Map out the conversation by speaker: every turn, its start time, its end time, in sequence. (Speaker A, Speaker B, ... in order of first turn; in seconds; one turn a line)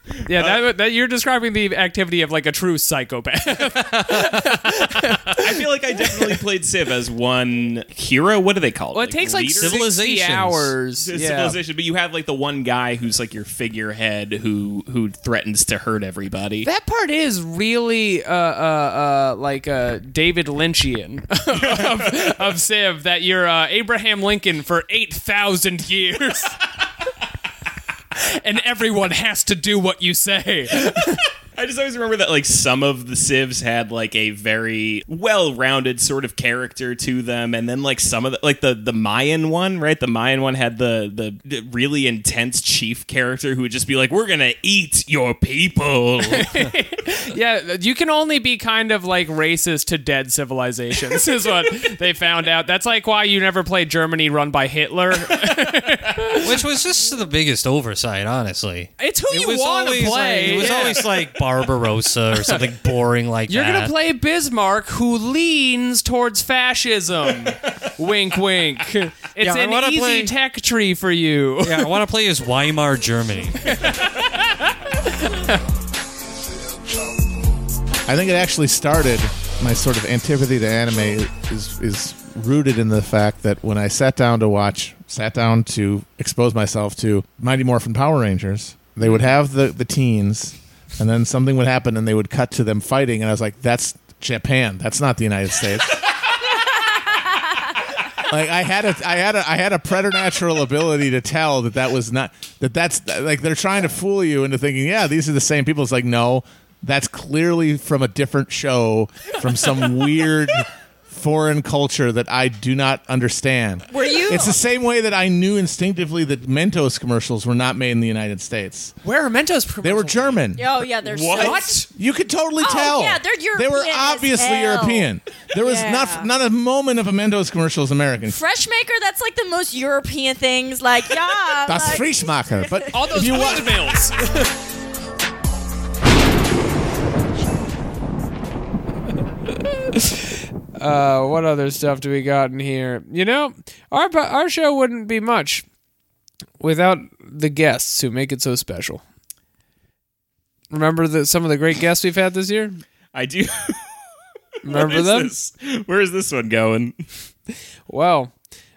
Speaker A: 0.2-5.4
Speaker B: 5.3-9.9
Speaker A: 6.1-6.4
Speaker A: 8.9-11.6
Speaker C: 9.6-10.8
Speaker B: 11.0-16.7
Speaker A: 16.6-26.6
Speaker B: 21.7-22.2
Speaker A: 28.2-31.2
Speaker B: 31.6-46.5
Speaker A: 46.2-56.6
Speaker C: 56.4-64.0
Speaker A: 59.0-61.4
Speaker A: 62.4-62.7
Speaker A: 63.5-72.0
Speaker C: 69.4-70.3
Speaker C: 71.6-73.6
Speaker A: 73.7-74.4
Speaker D: 78.1-96.0
Speaker D: 98.3-119.0
Speaker E: 113.9-114.6
Speaker A: 119.0-120.4
Speaker D: 119.8-120.7
Speaker E: 120.6-121.8
Speaker B: 121.1-121.6
Speaker A: 121.3-121.9
Speaker D: 121.9-128.4
Speaker E: 122.6-126.3
Speaker E: 128.2-132.9
Speaker D: 131.7-133.8
Speaker A: 132.9-134.5
Speaker A: 140.8-145.7
Speaker A: 146.6-149.0
Speaker A: 150.7-152.8
Speaker B: 153.1-153.9
Speaker A: 154.6-155.3
Speaker B: 154.7-157.0
Speaker A: 157.9-158.3